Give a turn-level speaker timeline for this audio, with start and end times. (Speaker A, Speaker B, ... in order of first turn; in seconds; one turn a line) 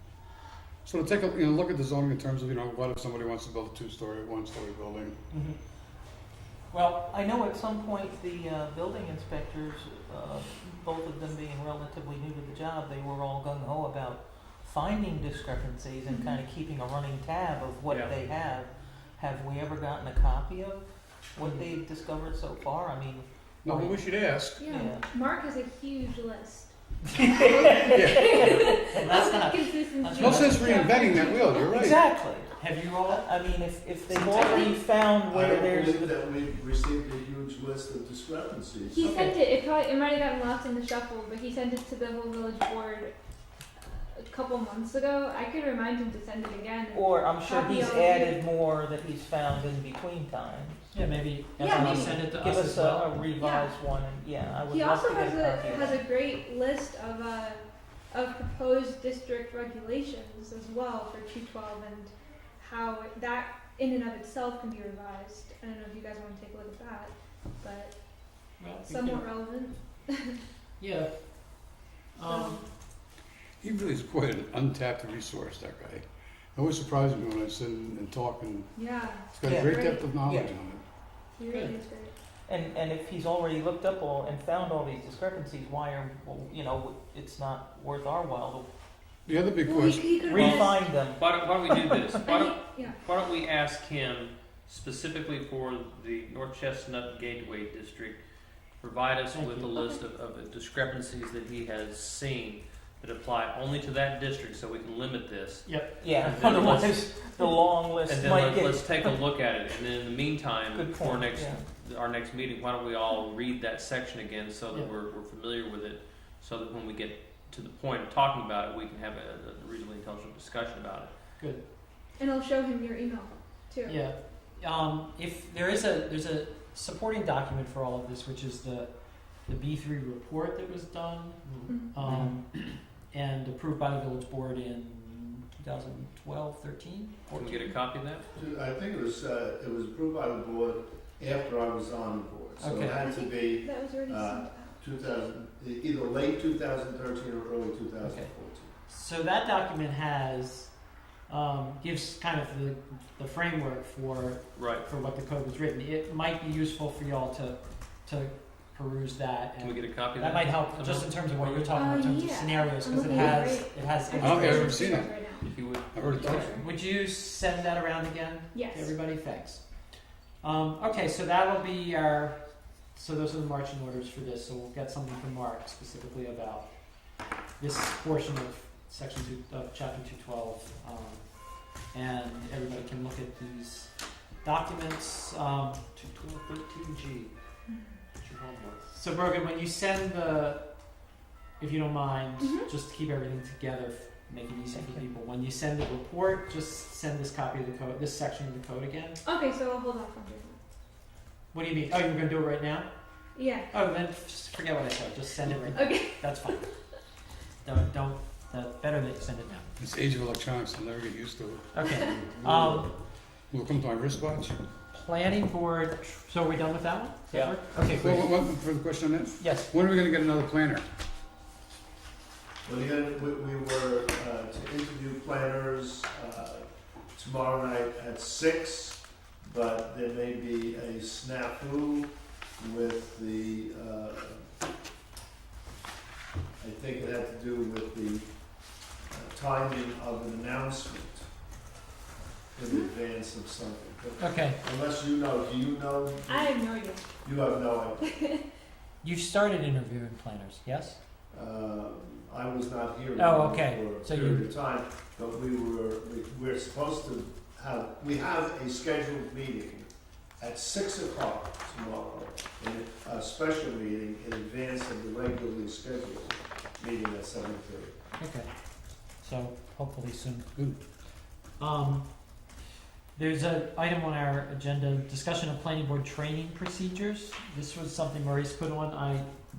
Speaker A: 0.8-5.2
Speaker B: 6.7-23.9
Speaker C: 16.1-16.4
Speaker D: 17.9-18.1
Speaker A: 23.6-24.7
Speaker C: 24.6-26.8
Speaker B: 24.7-25.0
Speaker B: 27.1-28.6
Speaker C: 27.4-31.8
Speaker A: 27.9-28.3
Speaker E: 28.2-31.2
Speaker A: 30.2-32.0
Speaker B: 31.4-32.5
Speaker E: 32.5-33.3
Speaker B: 33.0-36.2
Speaker E: 34.1-34.8
Speaker F: 35.3-39.2
Speaker C: 38.9-43.1
Speaker E: 39.0-39.4
Speaker C: 44.1-48.4
Speaker B: 46.9-50.9
Speaker E: 50.9-53.2
Speaker C: 51.6-52.2
Speaker B: 51.6-56.0
Speaker C: 53.4-53.8
Speaker C: 54.7-67.9
Speaker E: 68.6-69.3
Speaker C: 68.8-70.4
Speaker E: 70.8-72.7
Speaker C: 72.2-72.7
Speaker A: 73.6-78.7
Speaker C: 78.8-79.9
Speaker A: 79.3-80.8
Speaker B: 79.4-80.6
Speaker C: 81.4-82.1
Speaker E: 81.5-81.8
Speaker B: 82.5-88.7
Speaker A: 89.3-90.2
Speaker C: 89.6-90.9
Speaker B: 90.2-92.6
Speaker D: 90.3-98.2
Speaker C: 92.2-93.0
Speaker D: 98.8-107.1
Speaker E: 99.3-99.8
Speaker C: 99.8-100.0
Speaker E: 105.7-106.9
Speaker B: 106.0-109.1
Speaker D: 107.9-121.1
Speaker B: 110.7-111.6
Speaker E: 121.4-121.6
Speaker C: 122.2-124.0
Speaker E: 123.9-128.9
Speaker E: 129.4-137.8
Speaker F: 131.4-131.7
Speaker C: 131.7-131.9
Speaker D: 137.3-138.2
Speaker F: 138.3-148.7
Speaker E: 142.6-143.1
Speaker C: 143.0-144.8
Speaker E: 148.0-148.3
Speaker E: 148.9-150.7
Speaker E: 151.3-164.9
Speaker D: 154.6-154.8
Speaker D: 159.6-162.0
Speaker C: 161.8-165.6
Speaker A: 164.2-166.6
Speaker D: 165.4-166.6
Speaker C: 166.2-166.6
Speaker E: 166.5-169.8
Speaker C: 168.5-168.9
Speaker E: 170.4-176.8
Speaker E: 177.6-181.3
Speaker E: 181.8-185.9
Speaker D: 186.0-187.3
Speaker C: 187.7-188.0
Speaker D: 188.2-188.8
Speaker E: 188.9-190.7
Speaker E: 191.6-199.2
Speaker C: 192.4-192.7
Speaker B: 194.7-195.0
Speaker C: 199.2-200.6
Speaker E: 201.5-202.9
Speaker C: 203.3-203.7
Speaker E: 203.7-206.7
Speaker C: 205.7-206.6
Speaker E: 207.6-209.7
Speaker A: 209.8-212.7
Speaker E: 211.7-212.9
Speaker C: 211.8-212.1
Speaker A: 213.5-214.6
Speaker E: 214.9-218.3
Speaker D: 217.3-217.6
Speaker A: 217.9-220.8
Speaker E: 219.4-219.7
Speaker F: 222.7-234.5
Speaker F: 236.6-238.3
Speaker F: 239.1-241.2
Speaker F: 242.6-246.6
Speaker E: 244.2-244.6
Speaker C: 246.3-247.1
Speaker F: 247.2-248.1
Speaker C: 248.0-248.4
Speaker E: 249.0-251.0
Speaker F: 251.3-267.9
Speaker E: 253.2-254.5
Speaker E: 268.2-270.5
Speaker E: 271.6-272.1
Speaker E: 273.1-279.3